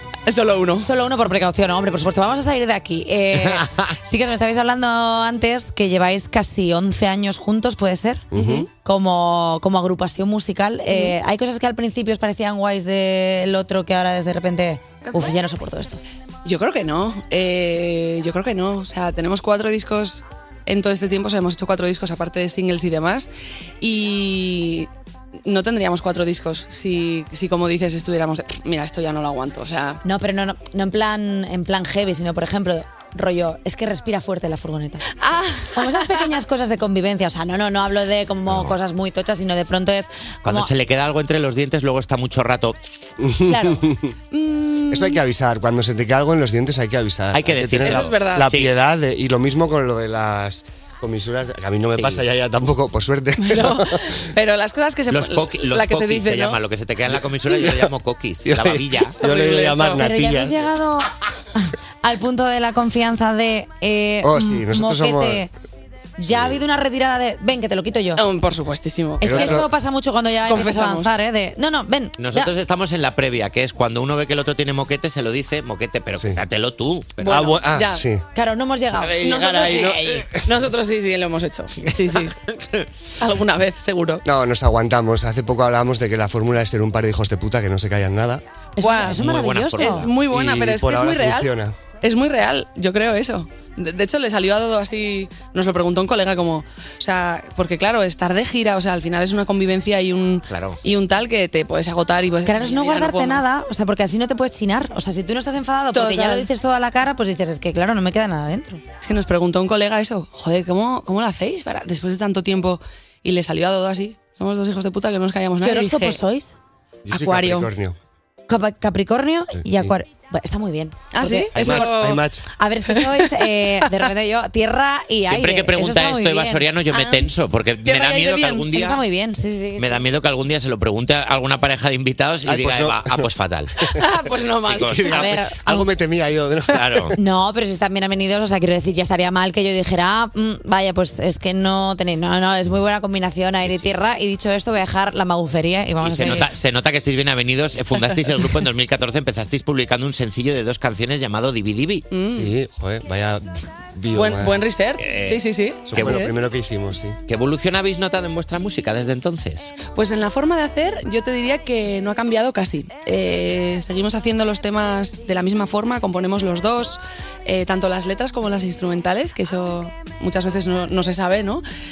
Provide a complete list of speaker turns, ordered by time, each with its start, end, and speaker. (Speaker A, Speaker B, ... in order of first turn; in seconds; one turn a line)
Speaker A: 0.3-0.9
Speaker B: 0.8-16.0
Speaker C: 3.4-3.9
Speaker D: 8.3-8.7
Speaker A: 8.3-8.7
Speaker A: 16.4-23.3
Speaker A: 23.8-24.9
Speaker A: 25.4-30.0
Speaker B: 30.0-35.0
Speaker A: 35.2-35.7
Speaker B: 35.7-40.7
Speaker C: 40.4-42.8
Speaker D: 43.2-44.1
Speaker B: 43.5-43.8
Speaker A: 44.3-45.2
Speaker D: 44.9-54.2
Speaker C: 47.3-48.7
Speaker A: 47.8-48.5
Speaker C: 51.9-52.2
Speaker A: 53.4-56.6
Speaker C: 55.1-59.2
Speaker D: 57.1-57.9
Speaker D: 58.4-60.7
Speaker A: 59.2-60.0
Speaker B: 60.0-65.5
Speaker D: 64.2-65.5
Speaker B: 66.2-68.2
Speaker D: 66.2-66.6
Speaker A: 68.2-69.5
Speaker B: 69.2-72.5
Speaker D: 69.2-69.7
Speaker A: 70.5-71.1
Speaker C: 72.2-77.6
Speaker A: 77.2-78.0
Speaker D: 77.2-78.2
Speaker B: 78.3-79.9
Speaker D: 79.0-80.5
Speaker A: 79.2-82.3
Speaker C: 82.3-82.8
Speaker A: 83.2-84.2
Speaker D: 84.2-88.4
Speaker B: 88.8-90.1
Speaker A: 88.8-89.2
Speaker C: 88.9-90.2
Speaker A: 89.8-103.5
Speaker D: 90.2-91.8
Speaker C: 100.5-100.8
Speaker B: 102.4-108.8
Speaker A: 105.9-106.5
Speaker A: 109.0-116.2
Speaker B: 115.6-116.5
Speaker D: 117.0-118.0
Speaker A: 117.1-117.7
Speaker B: 118.5-121.9
Speaker D: 119.5-119.9
Speaker A: 121.1-122.2
Speaker D: 121.5-122.4
Speaker B: 122.6-126.7
Speaker A: 122.9-123.5
Speaker C: 125.2-129.0
Speaker A: 126.9-127.2
Speaker A: 127.8-128.9
Speaker B: 128.7-130.0
Speaker C: 129.8-133.9
Speaker D: 132.4-133.3
Speaker A: 133.9-135.0
Speaker C: 134.6-135.4
Speaker D: 134.8-137.1
Speaker B: 135.1-135.9
Speaker C: 136.7-137.1
Speaker B: 137.2-146.5
Speaker C: 146.0-152.1
Speaker A: 152.1-152.5
Speaker D: 152.4-154.6
Speaker A: 154.1-156.3
Speaker C: 155.0-156.3
Speaker D: 155.9-157.2
Speaker C: 157.3-159.7
Speaker A: 159.9-171.6